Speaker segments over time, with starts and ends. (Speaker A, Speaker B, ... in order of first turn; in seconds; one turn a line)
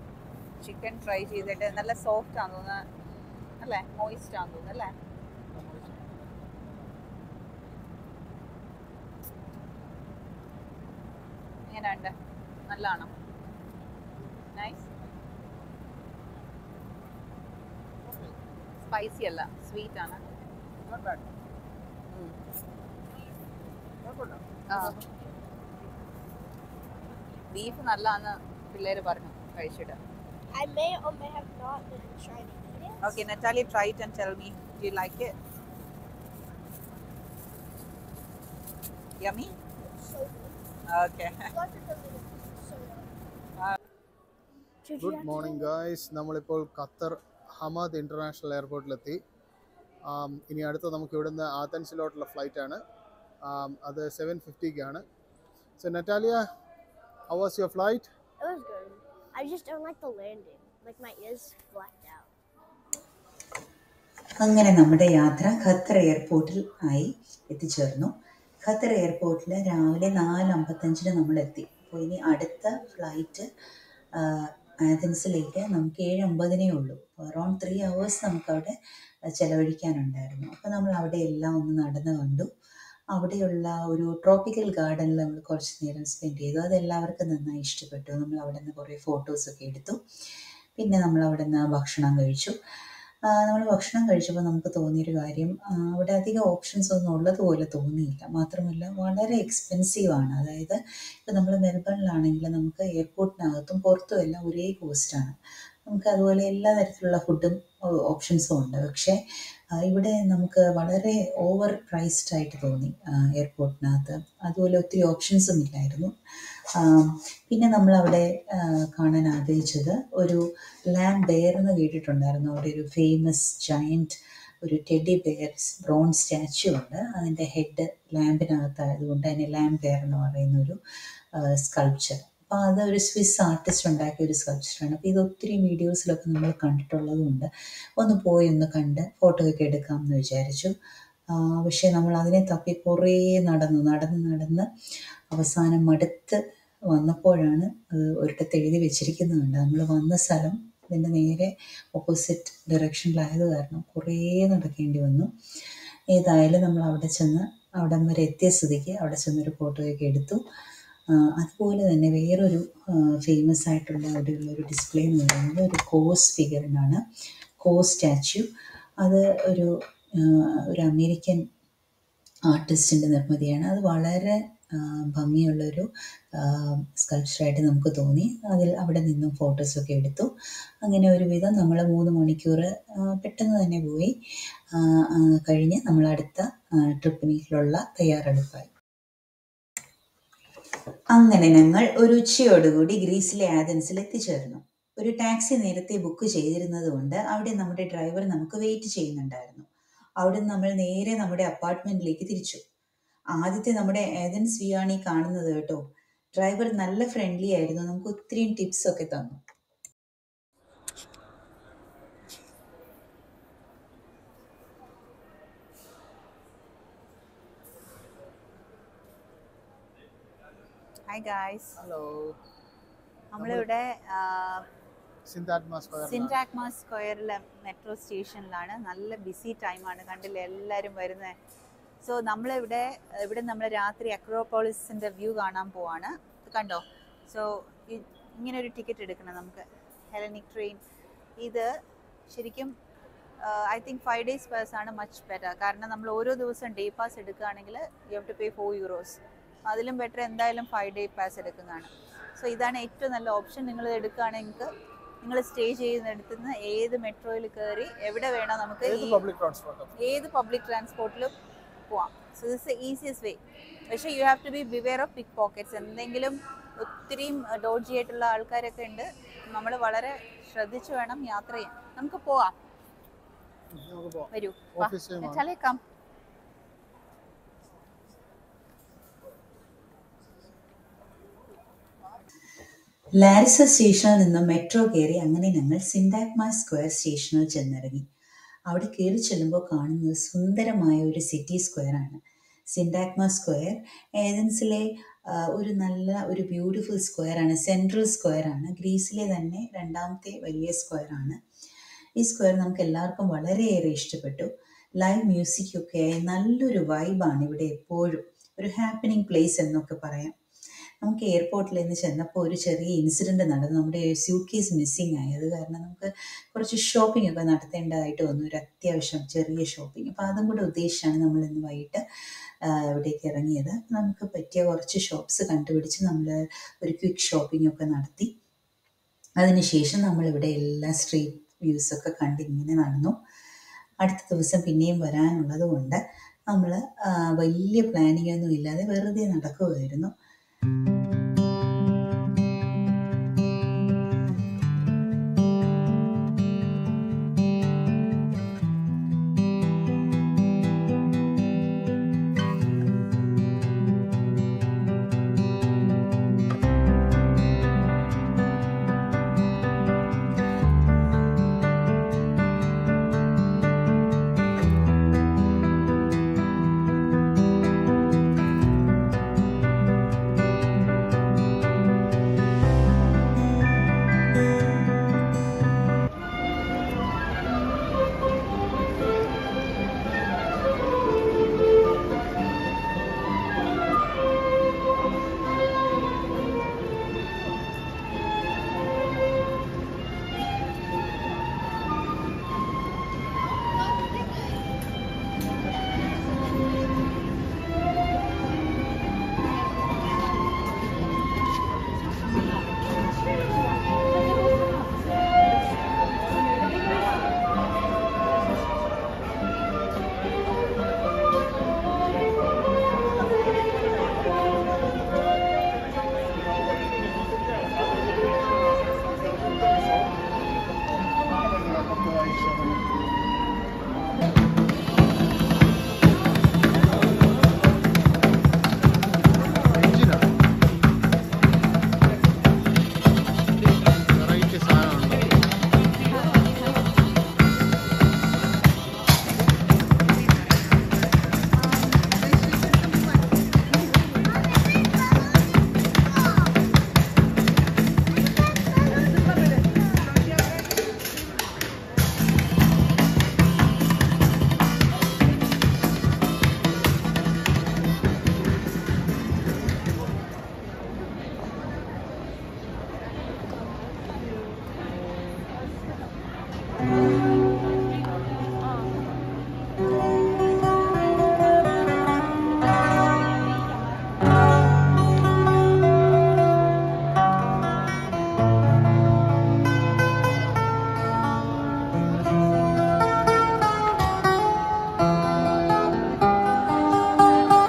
Speaker A: 0.6-2.9
Speaker B: 1.4-1.9
Speaker A: 3.6-4.9
Speaker B: 5.5-6.5
Speaker A: 11.7-12.1
Speaker A: 12.7-13.1
Speaker A: 14.5-14.8
Speaker B: 18.0-18.4
Speaker A: 18.8-20.2
Speaker B: 20.8-21.3
Speaker A: 22.1-22.4
Speaker B: 24.0-24.4
Speaker A: 24.7-25.0
Speaker A: 27.5-30.0
Speaker C: 30.5-33.2
Speaker A: 33.0-35.3
Speaker A: 39.2-39.6
Speaker C: 39.8-40.6
Speaker A: 40.9-41.5
Speaker C: 41.5-43.1
Speaker C: 44.9-45.7
Speaker B: 45.0-49.2
Speaker B: 50.1-52.8
Speaker B: 53.4-55.0
Speaker B: 55.8-56.4
Speaker B: 57.3-58.1
Speaker C: 58.4-62.3
Speaker D: 64.4-73.5
Speaker D: 74.2-78.7
Speaker D: 79.3-82.5
Speaker D: 83.1-90.0
Speaker D: 90.8-92.6
Speaker D: 93.3-105.3
Speaker D: 105.9-109.2
Speaker D: 109.7-116.1
Speaker D: 116.8-130.8
Speaker D: 131.3-140.7
Speaker D: 141.3-144.7
Speaker D: 145.3-160.4
Speaker D: 161.1-167.0
Speaker D: 167.6-168.5
Speaker D: 169.0-171.4
Speaker D: 172.5-184.1
Speaker D: 184.7-188.7
Speaker D: 191.1-199.7
Speaker D: 200.2-202.6
Speaker D: 203.4-205.8
Speaker D: 206.4-209.4
Speaker A: 221.1-221.8
Speaker B: 221.8-222.4
Speaker A: 223.3-224.7
Speaker B: 223.4-223.7
Speaker B: 225.3-226.4
Speaker A: 226.1-231.4
Speaker A: 232.0-240.8
Speaker A: 241.4-241.7
Speaker A: 242.3-242.7
Speaker A: 243.4-254.7
Speaker A: 255.2-259.2
Speaker B: 258.8-259.9
Speaker A: 260.0-261.3
Speaker A: 261.9-263.4
Speaker A: 263.9-272.5
Speaker B: 273.7-275.4
Speaker A: 274.3-275.8
Speaker D: 283.1-288.1
Speaker D: 288.7-292.2
Speaker D: 292.7-301.4
Speaker D: 302.2-310.4
Speaker D: 311.0-322.0
Speaker D: 322.6-328.3
Speaker D: 329.4-333.2
Speaker D: 334.0-340.1
Speaker B: 421.8-422.8
Speaker B: 429.6-430.3
Speaker B: 434.0-435.4
Speaker A: 442.4-443.0